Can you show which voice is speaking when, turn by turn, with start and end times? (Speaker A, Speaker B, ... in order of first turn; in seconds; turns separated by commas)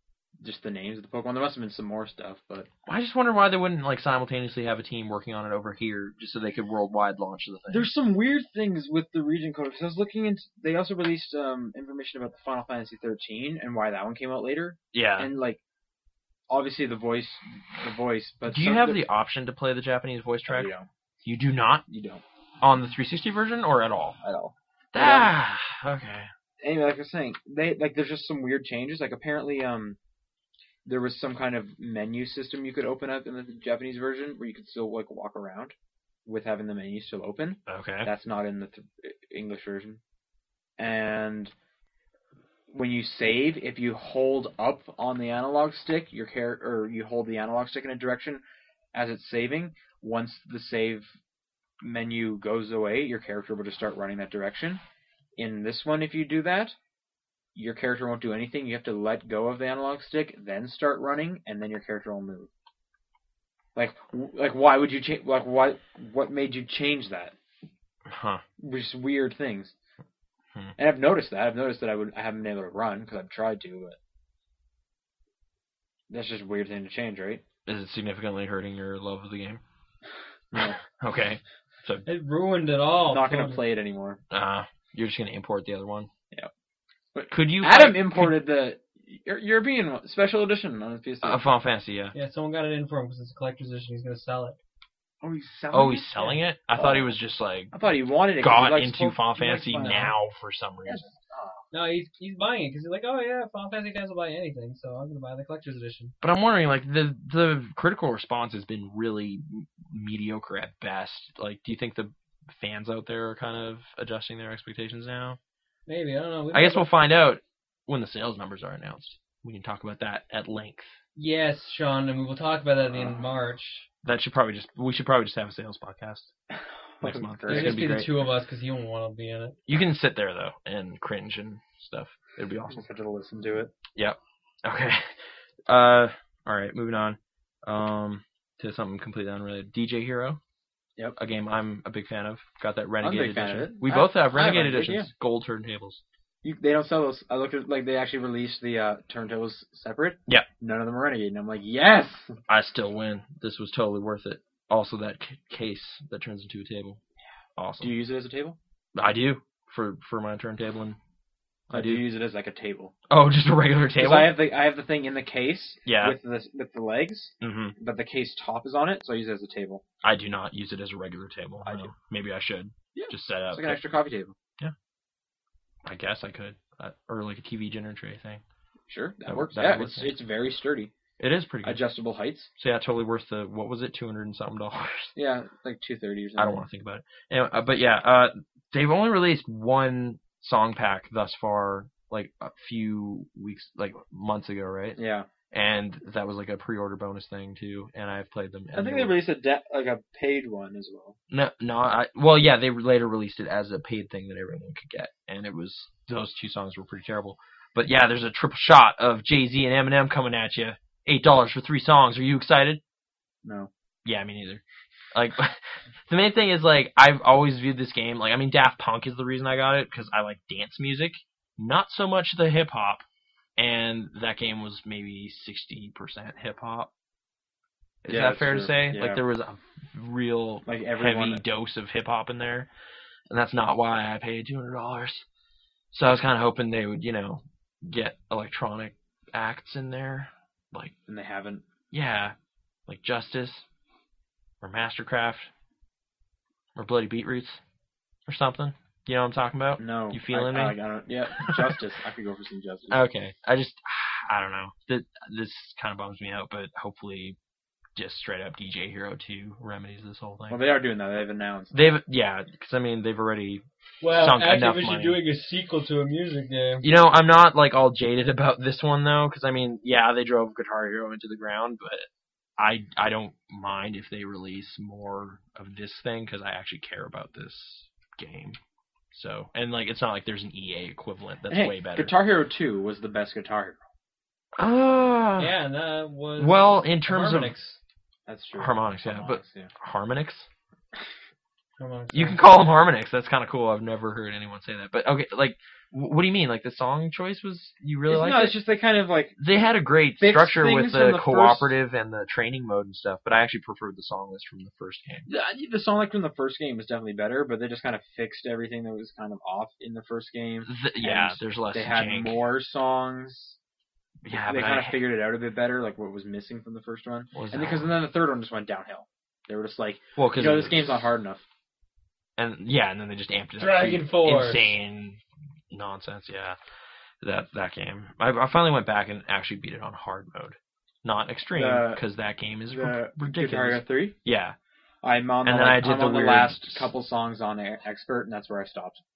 Speaker A: 0.4-2.7, Speaker B: 2.9-7.9, Speaker A: 7.7-15.6, Speaker B: 14.9-15.3, Speaker A: 16.5-19.0, Speaker B: 18.5-20.7, Speaker A: 20.5-20.9, Speaker B: 21.2-21.9, Speaker A: 21.9-22.2, Speaker B: 22.6-24.2, Speaker A: 24.2-25.3, Speaker B: 24.9-26.3, Speaker A: 26.6-30.0, Speaker A: 30.8-35.7, Speaker A: 36.2-40.0, Speaker B: 37.7-38.1, Speaker A: 40.8-41.5, Speaker A: 42.7-48.4, Speaker A: 48.9-51.1, Speaker A: 51.8-54.8, Speaker A: 55.4-56.8, Speaker A: 57.5-62.5, Speaker A: 63.8-67.3, Speaker B: 68.0-68.4, Speaker A: 68.6-69.7, Speaker A: 70.8-74.0, Speaker A: 76.1-77.4, Speaker B: 77.7-79.6, Speaker B: 80.5-82.0, Speaker C: 82.0-83.6, Speaker A: 83.1-84.2, Speaker B: 84.3-86.1, Speaker A: 87.1-91.5, Speaker B: 87.3-88.4, Speaker B: 91.2-92.1, Speaker C: 92.1-94.6, Speaker A: 95.2-97.1, Speaker B: 95.7-97.7, Speaker A: 97.7-100.1, Speaker B: 98.4-101.1, Speaker A: 100.8-101.6, Speaker C: 101.7-106.1, Speaker B: 106.2-115.4, Speaker C: 115.9-116.9, Speaker B: 116.5-121.0, Speaker C: 121.2-123.9, Speaker B: 124.0-126.3, Speaker A: 126.5-127.8, Speaker B: 127.0-128.3, Speaker C: 127.5-129.6, Speaker B: 129.7-132.8, Speaker A: 132.7-133.7, Speaker B: 133.9-140.4, Speaker B: 141.2-146.0, Speaker A: 143.0-145.1, Speaker A: 146.4-152.4, Speaker B: 152.5-157.0, Speaker B: 157.6-157.9, Speaker A: 157.8-158.6, Speaker B: 158.9-161.0, Speaker A: 161.7-162.9, Speaker B: 161.7-162.0, Speaker B: 163.1-164.4, Speaker A: 164.0-169.8, Speaker B: 165.8-166.2, Speaker B: 167.4-167.8, Speaker B: 170.0-173.8, Speaker A: 171.6-171.9, Speaker A: 172.9-174.3, Speaker B: 175.8-178.4, Speaker A: 178.9-180.9, Speaker B: 179.2-180.2, Speaker B: 181.2-181.8, Speaker A: 181.6-182.5, Speaker B: 182.6-185.1, Speaker A: 185.1-186.6, Speaker B: 186.4-195.0, Speaker A: 195.0-195.3, Speaker B: 195.5-199.2, Speaker A: 198.7-201.2, Speaker B: 201.3-212.8, Speaker A: 213.4-213.7, Speaker B: 214.0-214.6, Speaker B: 215.1-223.0, Speaker B: 223.6-226.9, Speaker B: 228.0-232.7, Speaker A: 228.1-229.2, Speaker A: 230.7-231.4, Speaker B: 233.3-235.2, Speaker B: 235.9-240.9, Speaker A: 241.1-241.6, Speaker B: 241.9-242.3, Speaker B: 242.9-243.7, Speaker B: 244.6-245.5, Speaker B: 246.7-247.6, Speaker B: 248.3-250.8, Speaker A: 249.8-253.0, Speaker B: 251.3-251.8, Speaker B: 252.9-257.4, Speaker B: 257.9-260.6, Speaker A: 260.5-262.0, Speaker B: 261.7-265.2, Speaker C: 264.0-266.8, Speaker B: 266.8-278.6, Speaker B: 279.1-282.1, Speaker A: 281.5-283.8, Speaker B: 284.6-285.5, Speaker C: 285.4-287.8, Speaker B: 286.4-287.5, Speaker A: 288.3-289.7, Speaker B: 288.6-290.5, Speaker C: 291.8-292.4, Speaker B: 292.1-298.6, Speaker A: 298.1-299.4, Speaker B: 299.4-305.3, Speaker A: 300.2-301.7, Speaker A: 305.3-313.6, Speaker B: 310.6-312.4, Speaker B: 314.2-315.0, Speaker A: 314.5-321.4, Speaker B: 317.3-317.9, Speaker B: 320.2-321.1, Speaker B: 322.4-326.6, Speaker C: 323.6-324.7, Speaker B: 327.2-334.6, Speaker A: 331.5-332.0, Speaker A: 332.7-334.1, Speaker A: 335.0-339.0, Speaker B: 335.4-336.9